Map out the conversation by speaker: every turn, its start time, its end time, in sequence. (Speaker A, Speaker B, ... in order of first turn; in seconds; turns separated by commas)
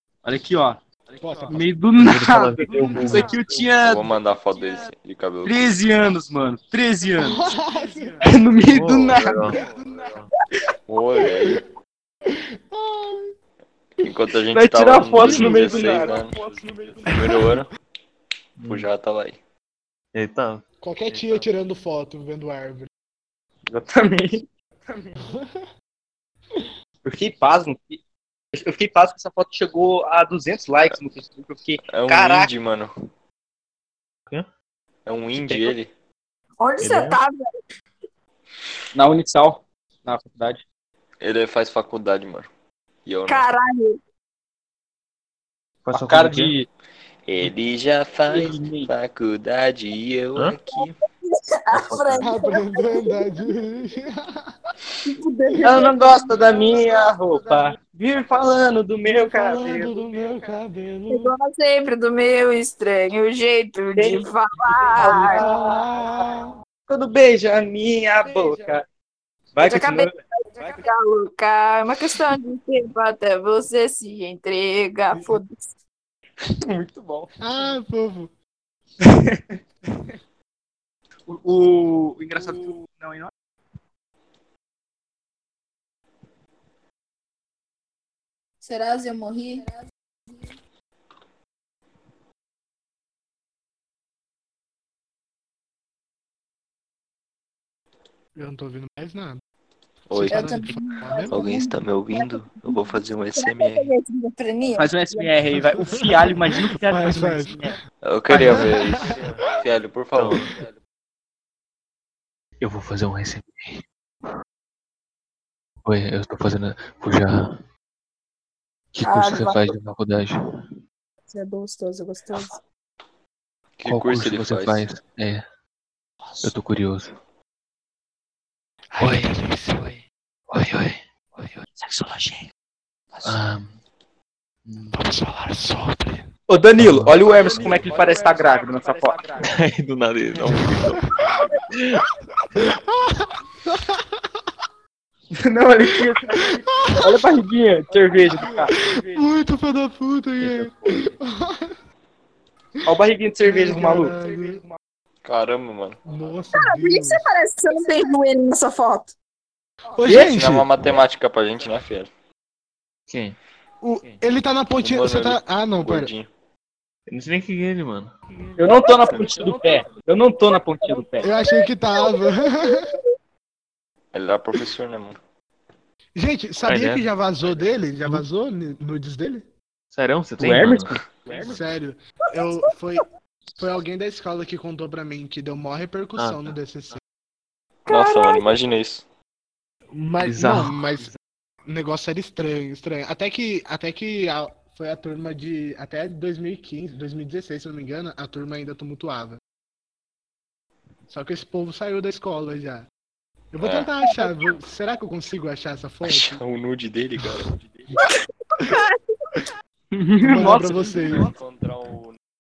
Speaker A: 0.2-4.8, Speaker B: 1.2-1.6, Speaker C: 2.0-3.7, Speaker B: 2.8-3.3, Speaker D: 3.8-5.7, Speaker A: 5.4-9.7, Speaker B: 7.2-8.2, Speaker C: 8.7-10.3, Speaker D: 10.9-11.6, Speaker B: 11.4-11.6, Speaker B: 12.3-13.3, Speaker D: 14.0-16.4, Speaker A: 14.5-17.5, Speaker C: 15.2-15.6, Speaker D: 17.0-17.7, Speaker B: 17.1-17.5, Speaker C: 18.6-18.9, Speaker D: 18.7-19.4, Speaker C: 20.1-20.6, Speaker B: 20.8-22.9, Speaker A: 23.7-25.1, Speaker B: 25.2-25.6, Speaker A: 27.0-28.0, Speaker A: 28.5-32.5, Speaker D: 31.9-32.9, Speaker D: 35.1-35.9, Speaker A: 35.4-35.8, Speaker E: 36.6-37.4, Speaker C: 36.8-37.2, Speaker A: 38.9-40.6, Speaker D: 41.2-42.5, Speaker D: 43.1-43.5, Speaker E: 43.3-44.0, Speaker C: 45.9-46.5, Speaker A: 45.9-46.7, Speaker D: 47.3-51.0, Speaker A: 48.3-48.9, Speaker E: 50.7-53.5, Speaker C: 51.7-52.3, Speaker B: 52.2-54.5, Speaker E: 55.0-56.6, Speaker B: 55.5-57.4, Speaker A: 55.6-60.5, Speaker B: 59.0-61.3, Speaker E: 61.1-65.4, Speaker A: 64.0-66.1, Speaker B: 65.0-66.5, Speaker A: 66.9-68.8, Speaker A: 69.5-70.7, Speaker E: 69.6-75.7, Speaker A: 76.4-77.7, Speaker B: 77.4-78.3, Speaker A: 79.0-80.1, Speaker A: 81.3-83.3, Speaker E: 88.6-89.8, Speaker B: 98.4-99.4, Speaker D: 100.1-100.5, Speaker B: 100.1-101.4, Speaker E: 100.3-106.0, Speaker D: 101.3-103.9, Speaker A: 104.7-107.8, Speaker B: 105.8-107.7, Speaker D: 108.0-110.7, Speaker B: 108.3-109.1, Speaker C: 110.1-110.5, Speaker C: 112.6-113.8, Speaker C: 115.8-117.5, Speaker C: 118.9-120.4, Speaker E: 119.0-119.6, Speaker E: 121.3-122.6, Speaker D: 123.8-124.8, Speaker C: 123.8-125.5, Speaker C: 126.4-127.1, Speaker B: 128.9-129.9, Speaker C: 129.0-131.7, Speaker A: 131.8-132.5, Speaker C: 133.2-133.8, Speaker C: 134.7-135.0, Speaker B: 134.9-136.3, Speaker A: 136.5-139.5, Speaker C: 136.8-137.9, Speaker C: 139.4-142.1, Speaker B: 142.6-144.2, Speaker A: 145.3-149.2, Speaker B: 145.9-147.3, Speaker B: 148.3-151.8, Speaker C: 150.4-151.1, Speaker A: 152.9-154.7, Speaker B: 153.4-154.6, Speaker D: 155.2-156.0, Speaker B: 156.1-157.2, Speaker E: 156.5-159.1, Speaker B: 159.9-160.7, Speaker A: 160.0-160.4, Speaker D: 160.1-162.1, Speaker C: 163.1-163.4, Speaker B: 163.8-166.1, Speaker D: 164.8-166.3, Speaker C: 167.1-168.1, Speaker A: 168.6-171.3, Speaker E: 168.8-169.2, Speaker E: 170.8-173.0, Speaker B: 171.2-172.9, Speaker D: 174.1-175.2, Speaker B: 176.2-179.4, Speaker C: 176.6-177.1, Speaker C: 179.9-181.0, Speaker A: 180.4-181.6, Speaker B: 181.4-183.1, Speaker E: 182.3-183.0, Speaker B: 183.6-187.0, Speaker C: 186.2-187.0, Speaker E: 187.9-188.5, Speaker D: 187.9-189.0, Speaker B: 189.9-191.1, Speaker C: 190.2-190.7, Speaker B: 191.7-199.4, Speaker B: 201.1-202.9, Speaker B: 203.5-206.4, Speaker D: 203.6-203.9, Speaker E: 204.0-204.4, Speaker D: 206.1-208.1, Speaker E: 208.0-209.0, Speaker A: 209.9-211.3, Speaker B: 210.2-211.3, Speaker D: 211.1-212.2